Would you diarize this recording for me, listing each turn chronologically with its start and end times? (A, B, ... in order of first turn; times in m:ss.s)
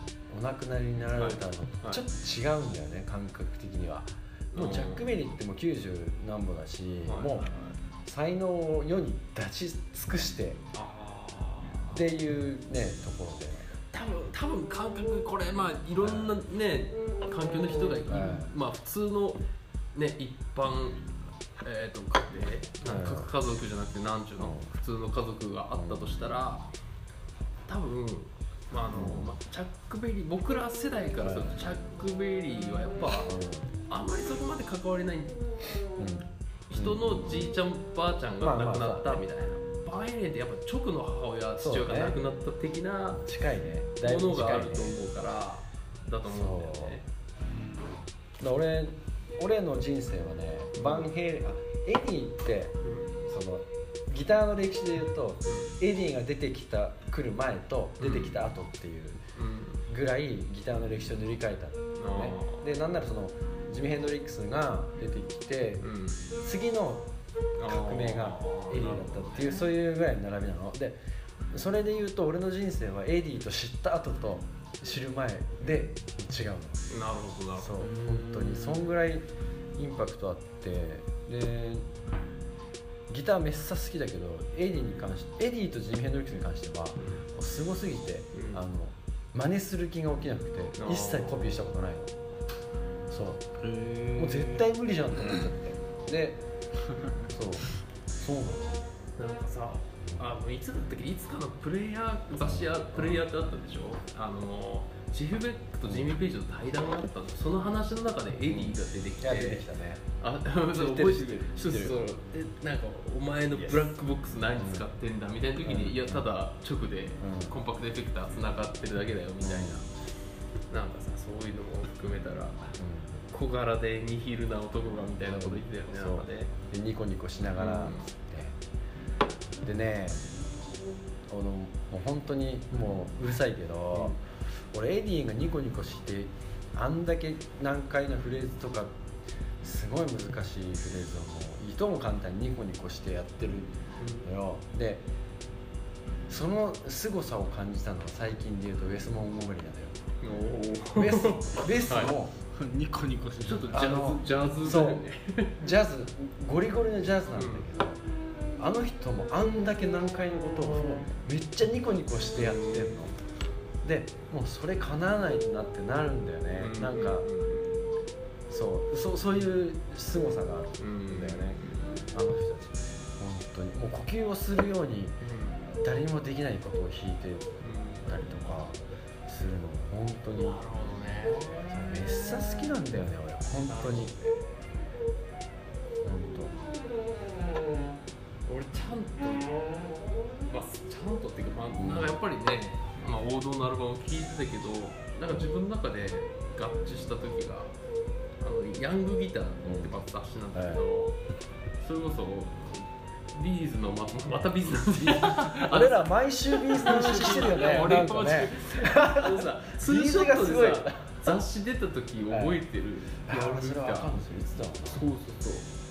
0:00.3-0:07.5 A
0:01.1-0:02.0 B
0:04.5-0:05.2 B
0:07.0-0:07.8 B
0:08.0-0:10.6 A
0:10.7-0:12.1 B
0:11.9-0:13.7 A
0:13.9-0:19.4 B
0:16.0-0:16.4 A
0:18.1-0:18.5 A
0:19.9-0:21.0 B
0:21.6-0:26.7 B
0:22.8-0:23.3 A
0:24.4-0:24.7 A
0:25.7-0:26.2 A
0:27.7-0:33.3 B
0:28.9-0:29.3 A
0:31.2-0:31.6 A
0:33.2-0:33.7 A
0:33.9-0:35.4 B
0:36.0-0:37.6 A
0:36.7-0:43.2 B
0:38.4-0:39.3 A
0:41.6-0:42.2 A
0:43.1-0:45.0 A
0:44.0-0:47.0 B
0:46.2-0:47.0 A
0:48.4-0:59.2 A
0:50.7-0:51.1 B
0:52.8-0:53.1 B
0:55.4-0:55.7 B
0:58.0-0:58.4 B
0:59.4-0:59.8 B
0:59.9-1:05.8 A
1:02.0-1:02.6 B
1:05.8-1:06.2 B
1:06.4-1:07.1 A
1:07.6-1:09.7 B
1:07.6-1:11.0 A
1:11.5-1:16.8 A
1:16.9-1:17.7 B
1:17.6-1:21.9 A
1:17.8-1:18.9 C
1:23.1-1:32.1 A
1:28.3-1:28.6 B
1:30.8-1:31.6 B
1:33.1-1:33.4 A
1:33.6-1:34.7 C
1:34.2-1:36.4 A
1:37.2-1:38.8 A
1:39.2-1:49.7 B
1:42.4-1:43.3 A
1:45.8-1:46.1 A
1:48.5-1:50.0 A
1:50.2-1:59.8 B
1:50.7-1:52.0 A
1:53.5-1:53.9 A
1:54.5-1:54.8 A
1:55.6-1:56.2 A
1:57.2-1:57.6 A
1:59.4-1:59.8 A
2:00.7-2:02.8 B
2:02.8-2:03.2 A
2:03.3-2:06.5 B
2:05.2-2:08.6 A
2:07.6-2:08.1 B
2:09.6-2:10.3 A
2:11.3-2:18.9 A
2:19.6-2:25.0 A
2:24.0-2:24.3 B
2:26.3-2:30.0 A
2:30.2-2:32.1 B
2:31.0-2:32.3 A
2:32.5-2:34.1 C
2:33.4-2:35.6 B
2:33.7-2:35.0 A
2:35.6-2:38.0 A
2:37.3-2:37.7 B
2:38.6-2:43.1 A
2:42.3-2:43.1 B
2:43.8-2:47.3 A
2:46.6-2:47.7 B
2:48.5-2:51.6 A
2:50.8-2:52.0 B
2:52.1-2:55.2 A
2:55.2-2:55.6 B
2:55.8-2:57.5 A
2:57.6-2:58.1 B
2:58.0-3:00.6 A
3:00.4-3:02.1 B
3:01.7-3:04.2 A
3:03.6-3:04.5 B
3:06.0-3:06.5 A
3:08.4-3:09.8 B
3:10.5-3:17.7 B
3:11.7-3:12.2 A
3:18.4-3:21.2 B
3:19.6-3:19.9 A
3:20.5-3:20.8 A
3:21.8-3:34.2 B
3:25.7-3:31.2 A
3:27.1-3:28.0 C
3:32.3-3:32.6 A
3:33.2-3:35.1 A
3:34.8-3:35.7 B